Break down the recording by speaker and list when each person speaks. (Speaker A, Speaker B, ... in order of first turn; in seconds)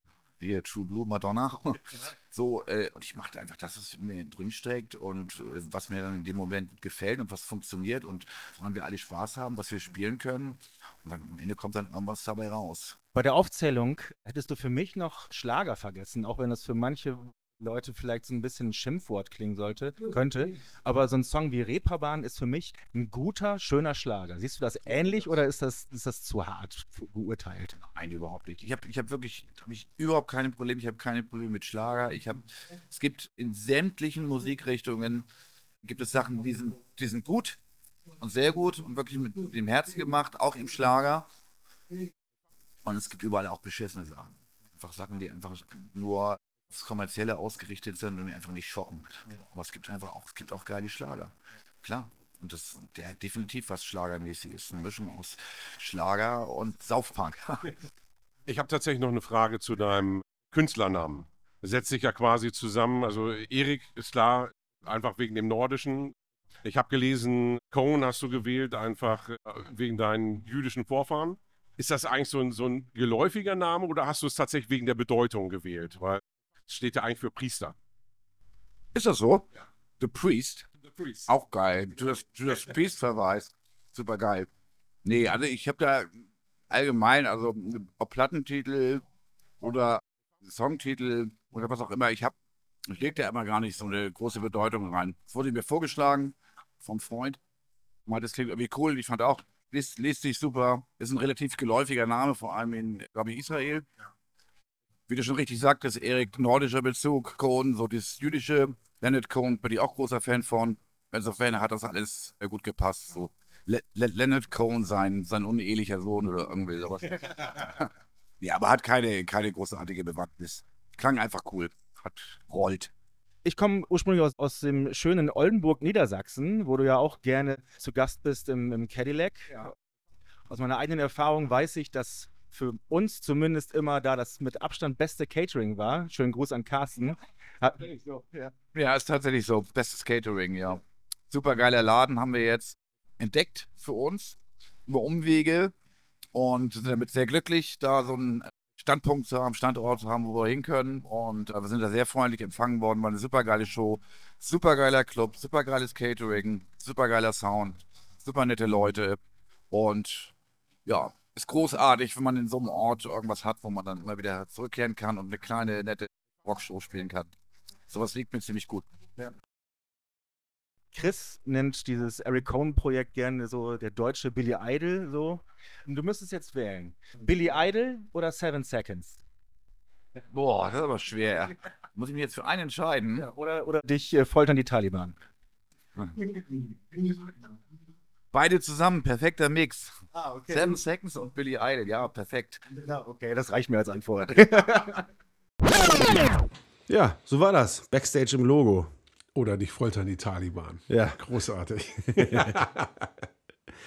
Speaker A: 0.4-13.0, 27.8-35.3, 35.8-37.6, 38.2-41.3, 42.8-57.7, 78.9-79.5, 80.0-80.7, 81.3-84.5, 85.0-89.1, 89.6-92.3, 92.9-97.4, 98.1-103.9, 105.1-122.9, 138.7-144.4, 144.9-145.7, 146.3-159.2, 159.7-160.3, 160.9-167.3, 167.9-168.8, 180.2-183.3, 188.3-192.6
Speaker B: 13.1-27.8, 123.4-129.7, 130.5-138.4, 170.9-179.2, 183.2-185.2, 190.1-190.7, 192.7-195.1
Speaker C: 58.5-77.8, 199.3-203.1
Speaker D: 196.9-198.9, 200.9-201.2, 202.1-202.6